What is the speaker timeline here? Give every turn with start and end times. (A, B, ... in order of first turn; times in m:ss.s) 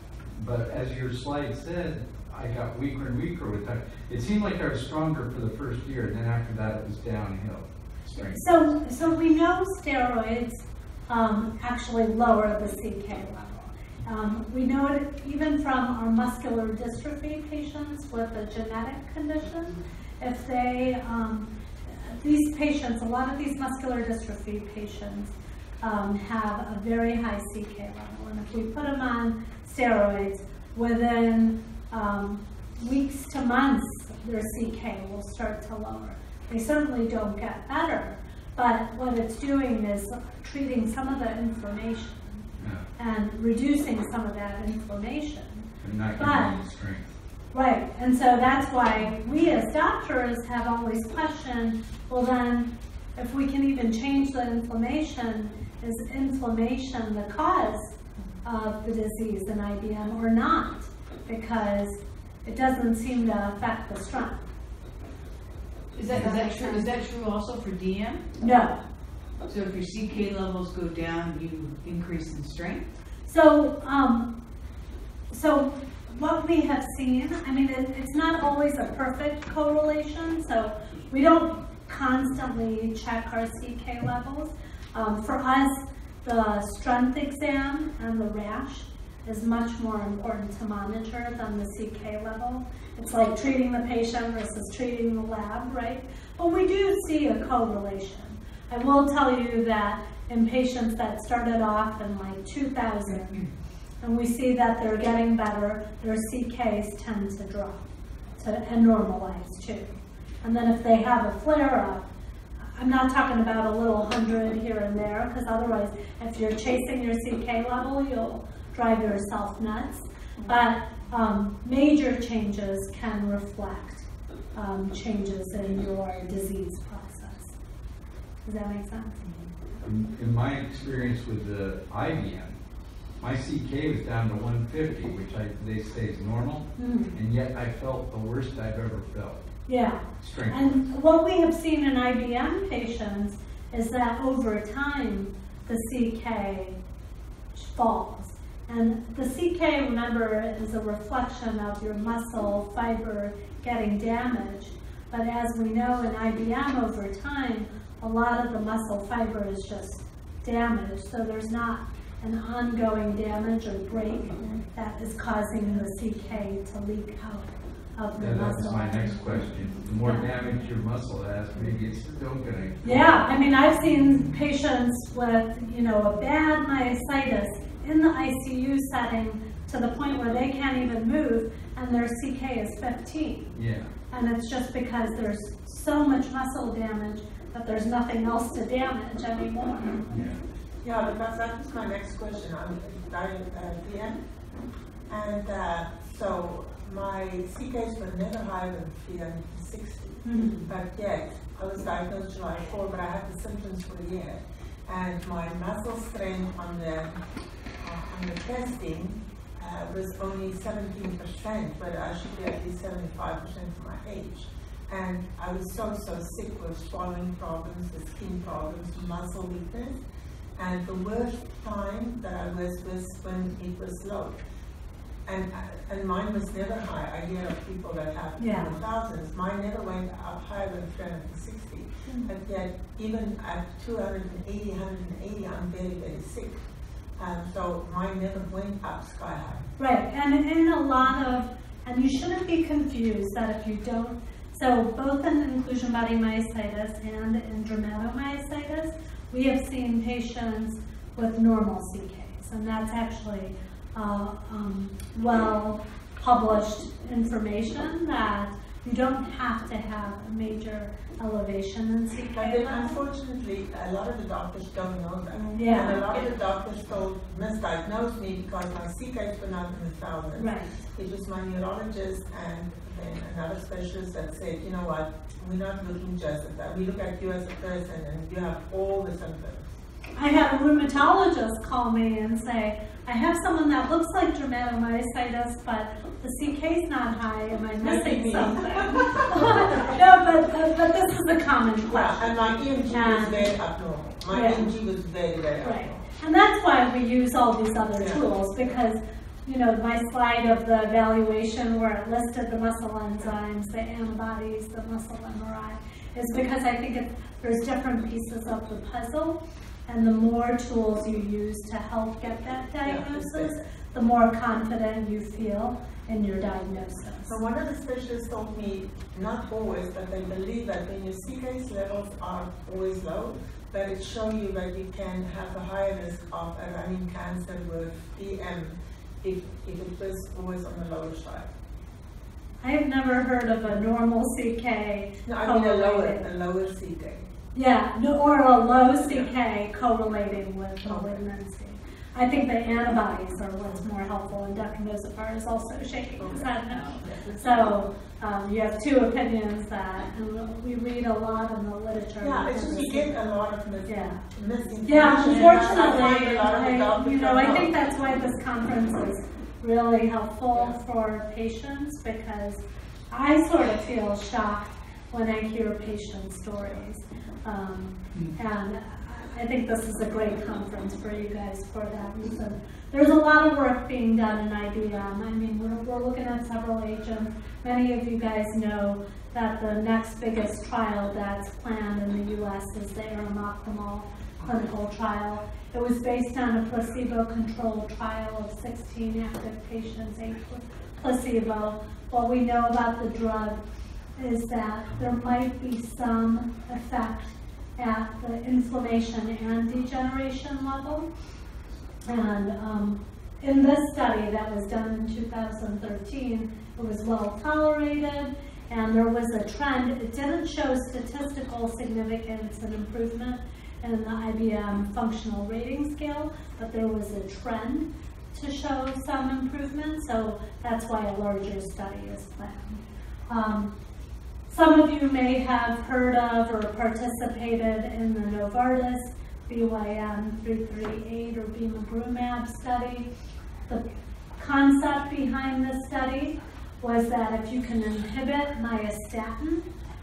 0:00.4-0:08.6 A
0:08.3-0:42.4 B
0:42.6-0:42.9 A
0:43.0-0:46.6 B
0:45.8-0:47.1 A
0:47.5-1:04.5 B
1:05.9-1:08.3 C
1:06.2-1:06.8 B
1:08.4-1:08.8 B
1:09.5-1:12.9 C
1:13.2-1:14.3 B
1:15.3-1:43.4 B
1:44.0-1:47.8 B
1:48.4-1:52.0 B
1:52.8-2:07.5 B
2:08.4-2:09.2 B
2:09.8-2:12.6 A
2:13.2-2:19.4 A
2:16.8-2:17.1 B
2:19.7-2:26.8 B
2:20.2-2:20.7 A
2:27.5-2:49.4 B
2:48.2-2:53.2 A
2:50.0-2:50.3 B
2:52.8-3:03.6 B
3:03.5-3:03.9 A
3:04.1-3:10.2 B
3:10.1-3:10.4 A
3:10.8-3:14.2 D
3:15.1-3:27.2 D
3:20.2-3:20.6 B
3:27.8-3:40.0 D
3:40.6-3:44.4 D
3:45.2-3:56.5 D
3:48.4-3:48.7 B
3:57.2-3:59.6 D
3:59.8-4:23.0 B
4:22.3-4:39.6 D
4:25.5-4:26.0 B
4:30.3-4:30.7 B
4:40.2-4:52.4 B
4:47.8-4:50.0 D
4:51.9-4:56.0 D
4:52.9-4:53.5 B
4:54.3-4:54.7 B
4:55.6-5:17.4 B
5:12.8-5:13.6 D
5:17.2-5:31.5 D
5:32.6-5:36.3 B
5:35.2-5:37.2 D
5:37.5-5:53.1 B
5:40.8-5:41.2 D
5:46.2-5:47.6 D
5:52.2-5:57.7 D
5:53.8-5:54.2 B
5:54.8-6:33.6 B
6:34.2-6:41.1 B
6:42.1-7:03.7 B
7:04.5-7:13.1 B
7:14.4-7:19.6 B